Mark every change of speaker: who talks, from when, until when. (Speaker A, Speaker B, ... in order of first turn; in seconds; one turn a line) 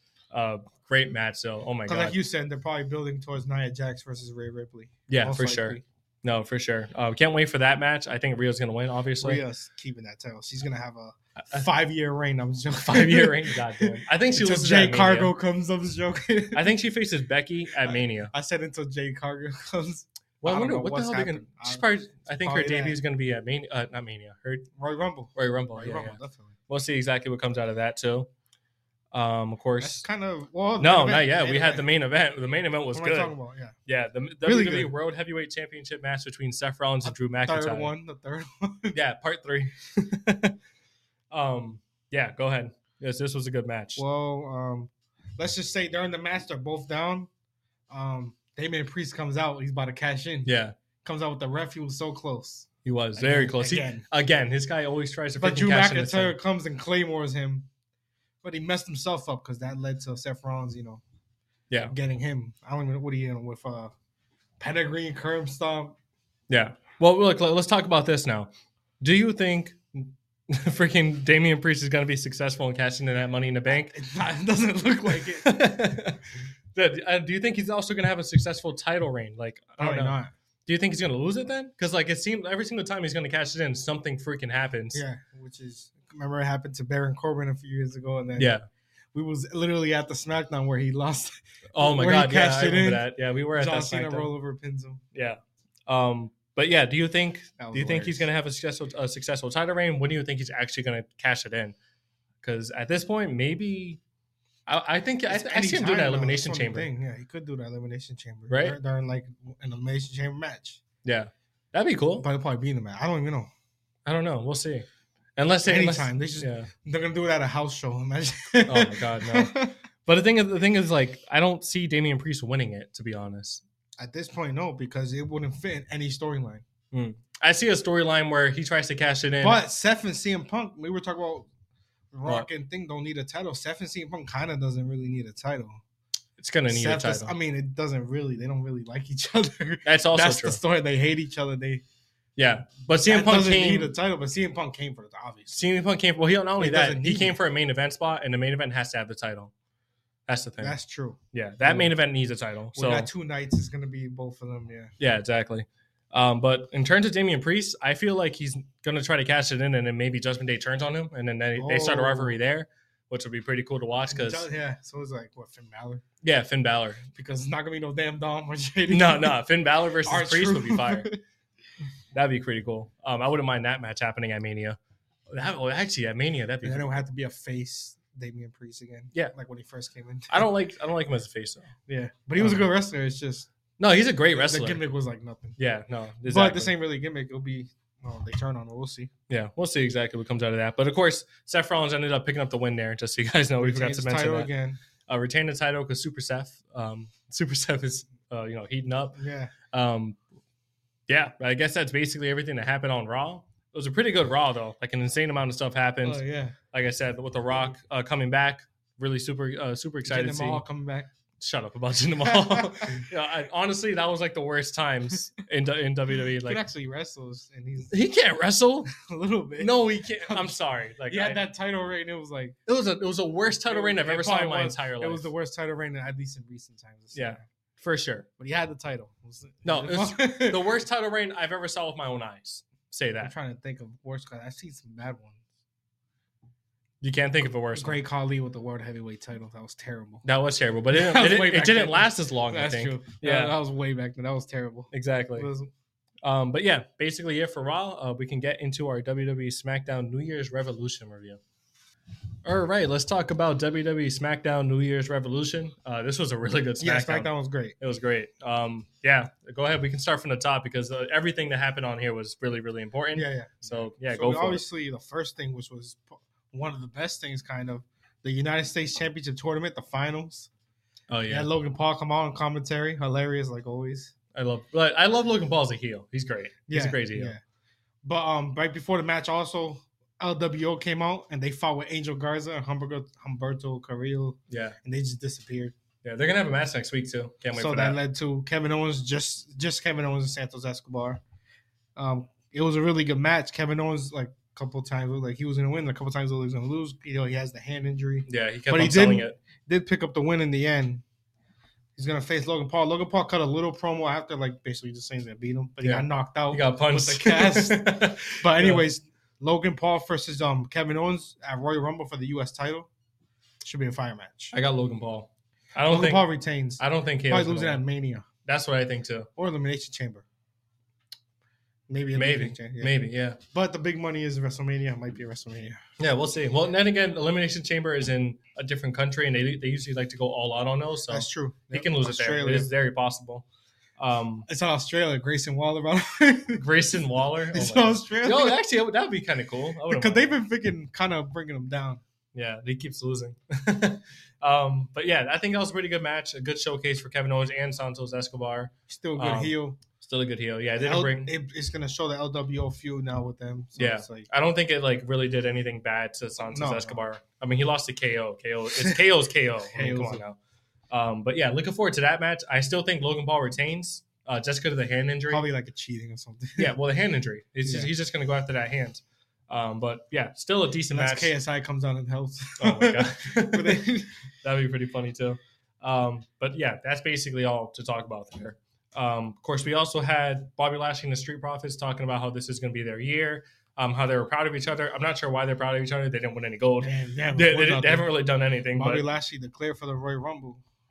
Speaker A: 0.3-2.2
Speaker B: 1.9-5.8
Speaker A: 5.1-9.4
Speaker B: 9.2-16.7
Speaker A: 11.4-11.7
Speaker A: 12.8-15.3
Speaker A: 16.5-18.3
Speaker B: 17.8-23.0
Speaker A: 20.4-24.7
Speaker B: 24.8-26.5
Speaker A: 25.3-28.3
Speaker A: 29.1-30.0
Speaker B: 29.8-31.9
Speaker A: 30.8-33.3
Speaker B: 32.9-33.8
Speaker A: 33.9-37.9
Speaker B: 34.4-34.9
Speaker B: 37.0-39.0
Speaker A: 38.9-40.5
Speaker A: 41.3-44.0
Speaker B: 44.0-47.3
Speaker B: 47.9-54.0
Speaker A: 50.4-50.8
Speaker A: 52.8-56.4
Speaker B: 55.4-57.7
Speaker B: 58.4-61.0
Speaker B: 61.9-63.9
Speaker B: 64.6-66.0
Speaker A: 66.5-73.9
Speaker B: 73.7-75.6
Speaker A: 75.1-85.0
Speaker B: 79.8-80.3
Speaker B: 84.9-88.5
Speaker A: 88.4-88.7
Speaker B: 89.1-95.0
Speaker A: 91.7-94.3
Speaker A: 95.1-101.8
Speaker B: 97.6-98.3
Speaker A: 102.4-104.0
Speaker A: 104.7-106.9
Speaker B: 105.3-110.8
Speaker A: 108.5-108.8
Speaker A: 111.0-112.2
Speaker B: 112.2-113.5
Speaker A: 114.0-116.7
Speaker B: 115.6-119.7
Speaker A: 118.7-119.5
Speaker A: 120.0-123.6
Speaker B: 124.0-126.6
Speaker A: 126.9-129.6
Speaker B: 129.4-131.5
Speaker B: 132.1-135.8
Speaker A: 136.4-137.3
Speaker B: 136.7-141.8
Speaker A: 139.8-140.6
Speaker A: 142.3-143.9
Speaker B: 143.0-145.7
Speaker A: 145.5-149.5
Speaker B: 146.6-147.4
Speaker A: 150.3-150.8
Speaker B: 150.6-151.9
Speaker A: 151.3-153.1
Speaker B: 152.7-154.9
Speaker A: 155.0-164.5
Speaker B: 161.6-162.4
Speaker B: 164.1-166.0
Speaker A: 166.2-167.1
Speaker B: 167.1-169.4
Speaker A: 168.9-171.1
Speaker B: 170.0-171.2
Speaker A: 172.1-174.8
Speaker A: 175.3-176.9
Speaker B: 176.6-180.5
Speaker A: 180.3-181.7
Speaker B: 181.9-183.5
Speaker A: 182.4-182.7
Speaker A: 183.8-184.8
Speaker B: 184.3-185.6
Speaker A: 185.6-186.7
Speaker B: 186.3-189.1
Speaker A: 189.3-194.5
Speaker B: 193.6-194.8
Speaker A: 195.1-200.2
Speaker B: 199.2-199.5
Speaker A: 201.1-210.6
Speaker B: 206.0-206.6
Speaker B: 210.1-211.1
Speaker A: 211.4-216.6
Speaker B: 212.2-213.1
Speaker B: 216.4-217.9
Speaker A: 217.9-218.9
Speaker B: 218.9-222.6
Speaker A: 219.6-221.4
Speaker A: 222.7-225.3
Speaker B: 223.6-227.4
Speaker A: 227.1-228.3
Speaker B: 228.4-230.7
Speaker A: 229.6-233.3
Speaker B: 233.2-235.4
Speaker A: 237.0-238.0
Speaker B: 237.7-240.2
Speaker A: 240.2-243.5
Speaker B: 240.9-245.7
Speaker A: 244.9-245.5
Speaker A: 246.2-251.4
Speaker A: 252.4-264.6
Speaker B: 256.8-257.7
Speaker B: 263.1-270.5
Speaker A: 271.1-271.5
Speaker B: 271.3-274.1
Speaker A: 274.3-277.3
Speaker B: 276.7-277.4
Speaker B: 278.0-285.7
Speaker A: 284.5-284.8
Speaker A: 286.0-288.0
Speaker B: 287.5-291.2
Speaker B: 291.9-301.0
Speaker A: 298.3-299.4
Speaker B: 301.9-312.9
Speaker A: 305.8-308.8
Speaker B: 313.6-314.5
Speaker A: 314.5-317.8
Speaker B: 315.9-318.2
Speaker A: 318.4-319.3
Speaker B: 319.4-320.2
Speaker B: 321.9-322.9
Speaker A: 322.1-323.4
Speaker B: 323.5-325.8
Speaker A: 326.0-333.4
Speaker B: 331.1-332.7
Speaker A: 334.0-334.5
Speaker B: 334.5-336.6
Speaker A: 336.6-340.4
Speaker B: 337.5-338.6
Speaker B: 339.9-342.0
Speaker A: 342.3-351.3
Speaker B: 348.9-349.8
Speaker B: 350.8-354.3
Speaker A: 353.8-360.4
Speaker B: 356.4-357.0
Speaker B: 359.7-360.2
Speaker A: 360.9-365.4
Speaker B: 365.3-366.7
Speaker A: 366.6-371.3
Speaker B: 367.6-367.9
Speaker B: 370.9-374.1
Speaker A: 372.6-373.8
Speaker A: 374.4-389.1
Speaker B: 386.8-388.1
Speaker B: 388.7-390.6